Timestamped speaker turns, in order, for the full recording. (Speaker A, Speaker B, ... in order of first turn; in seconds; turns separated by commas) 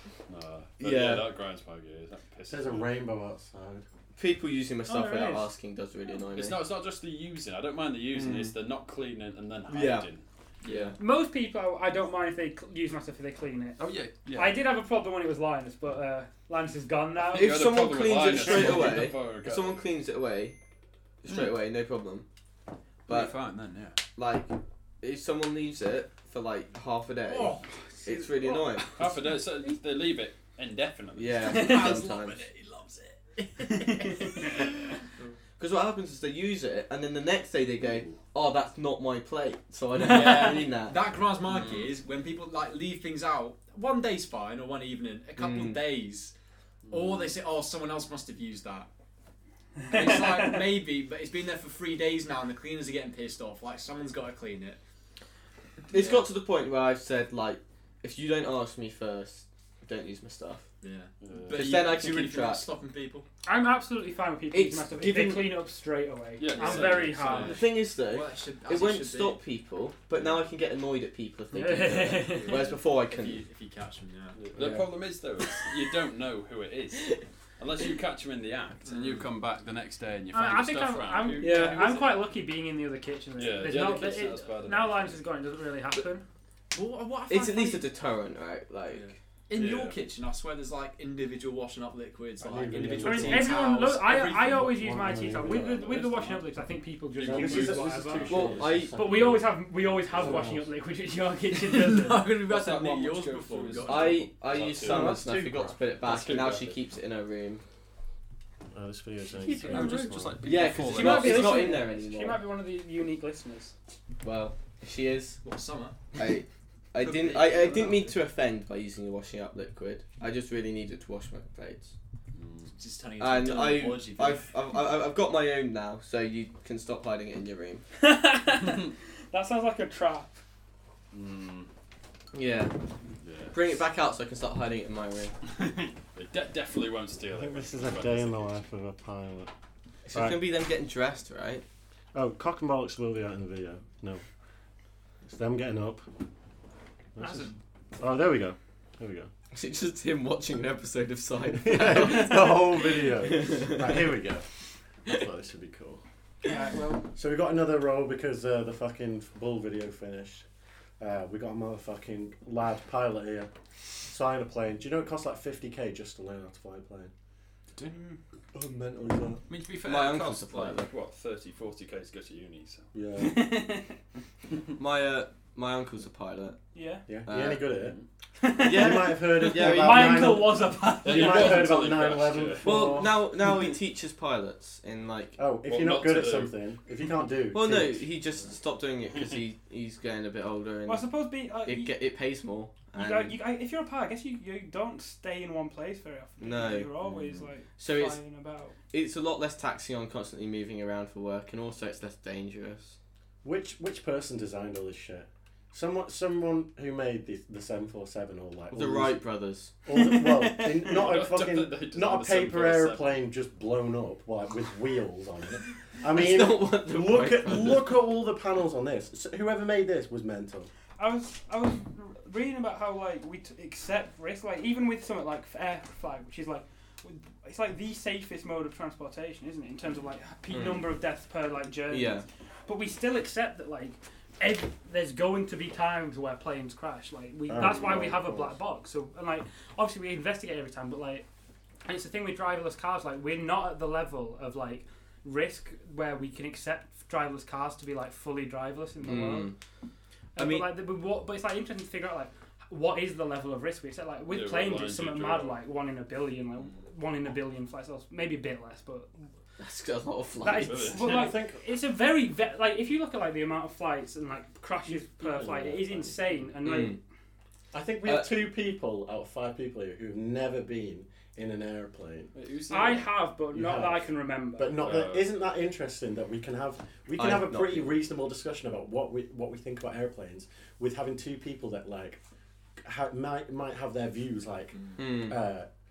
Speaker A: 0.3-2.9, Speaker B: 0.8-1.3, Speaker C: 2.5-3.8, Speaker B: 4.2-6.7, Speaker D: 4.8-5.5, Speaker A: 6.3-10.9, Speaker B: 8.1-8.6, Speaker B: 9.7-10.1, Speaker E: 10.6-11.0, Speaker D: 11.0-13.8, Speaker A: 13.8-14.6, Speaker D: 14.3-17.6, Speaker A: 17.3-19.9, Speaker B: 17.3-20.6, Speaker B: 21.2-22.2, Speaker A: 21.3-21.6, Speaker B: 23.1-23.4, Speaker A: 23.1-24.0, Speaker B: 24.1-29.0, Speaker E: 27.2-28.9, Speaker A: 28.9-31.9, Speaker B: 31.1-32.4, Speaker E: 31.4-35.4, Speaker D: 31.4-32.0, Speaker D: 33.6-34.7, Speaker B: 35.6-41.0, Speaker A: 37.8-38.2, Speaker E: 40.0-46.3, Speaker D: 40.1-40.6, Speaker B: 45.4-45.8, Speaker A: 46.9-47.3, Speaker E: 46.9-48.9, Speaker D: 49.8-50.6, Speaker E: 49.9-54.8, Speaker E: 55.9-56.3, Speaker B: 55.9-60.6, Speaker E: 60.8-63.2, Speaker A: 61.2-61.9, Speaker B: 61.5-62.6, Speaker D: 63.4-67.6, Speaker B: 64.5-65.6, Speaker A: 66.4-67.6, Speaker E: 66.5-69.4, Speaker B: 67.4-73.4, Speaker A: 70.1-70.4, Speaker D: 71.5-72.6, Speaker E: 72.4-74.4, Speaker A: 74.3-82.2, Speaker B: 74.5-74.9, Speaker E: 78.8-79.2, Speaker D: 80.3-86.2, Speaker B: 81.4-81.7, Speaker A: 83.3-85.2, Speaker E: 86.7-87.9, Speaker B: 87.3-89.1, Speaker E: 88.9-94.4, Speaker A: 89.5-90.0, Speaker C: 92.4-93.6, Speaker D: 93.0-98.3, Speaker C: 94.3-96.1, Speaker A: 95.5-96.4, Speaker A: 97.2-98.9, Speaker C: 97.2-99.5, Speaker B: 98.3-99.2, Speaker D: 98.9-102.3, Speaker C: 100.1-100.7, Speaker A: 100.1-100.5, Speaker E: 101.5-104.2, Speaker A: 102.5-106.8, Speaker B: 103.8-107.6, Speaker C: 104.8-105.7, Speaker C: 108.7-110.4, Speaker D: 109.4-113.7, Speaker A: 109.5-111.8, Speaker B: 110.4-112.4, Speaker B: 114.2-115.4, Speaker E: 115.4-116.0, Speaker B: 116.1-121.9, Speaker E: 117.0-118.2, Speaker A: 122.3-122.7, Speaker E: 122.7-124.5, Speaker B: 123.2-127.8, Speaker D: 128.0-130.4, Speaker A: 131.1-131.7, Speaker B: 132.3-132.8, Speaker A: 133.2-133.6, Speaker B: 133.5-135.3, Speaker A: 135.5-138.5, Speaker C: 137.3-139.5, Speaker B: 140.1-141.6, Speaker C: 140.1-140.5, Speaker C: 142.1-144.2, Speaker C: 145.2-146.0, Speaker C: 147.2-149.3, Speaker B: 149.5-154.1, Speaker C: 151.5-154.4, Speaker C: 155.0-156.0, Speaker D: 156.4-157.0, Speaker C: 157.1-160.4, Speaker C: 161.0-163.5, Speaker C: 164.1-167.1, Speaker C: 168.5-169.4, Speaker A: 169.5-172.9, Speaker B: 169.8-170.9, Speaker C: 172.9-173.5, Speaker D: 173.2-174.0, Speaker B: 174.8-176.6, Speaker D: 176.7-177.0, Speaker C: 177.1-177.9, Speaker B: 177.2-177.7, Speaker A: 177.8-178.0, Speaker D: 178.4-181.8, Speaker B: 178.6-180.5, Speaker C: 178.6-183.2, Speaker A: 181.0-182.8, Speaker B: 182.6-185.4, Speaker C: 185.4-188.0, Speaker A: 185.6-186.5, Speaker B: 187.5-191.1, Speaker A: 189.1-189.4, Speaker D: 190.8-191.9, Speaker B: 191.6-193.3, Speaker D: 192.9-198.8, Speaker B: 196.4-196.9, Speaker B: 197.8-198.2, Speaker B: 198.9-202.9, Speaker C: 203.4-209.2, Speaker B: 208.7-209.7, Speaker C: 209.8-220.7, Speaker D: 209.9-211.0, Speaker A: 210.8-213.2, Speaker B: 216.1-217.9, Speaker D: 221.0-241.2, Speaker B: 230.5-230.9, Speaker B: 231.9-232.2, Speaker C: 237.5-238.6, Speaker D: 241.8-249.5, Speaker B: 249.0-249.5, Speaker B: 250.3-250.7, Speaker D: 250.3-259.1, Speaker A: 254.3-255.6, Speaker B: 259.6-261.0, Speaker D: 260.4-267.0, Speaker A: 260.6-261.4, Speaker C: 261.0-261.6, Speaker C: 264.9-266.4, Speaker B: 266.6-267.0, Speaker C: 267.7-272.3, Speaker B: 268.0-268.3, Speaker A: 272.3-273.1, Speaker D: 272.7-274.9, Speaker C: 273.5-282.2, Speaker A: 274.8-275.3, Speaker B: 277.2-277.9, Speaker C: 282.8-285.7, Speaker E: 284.7-285.0, Speaker B: 285.0-285.4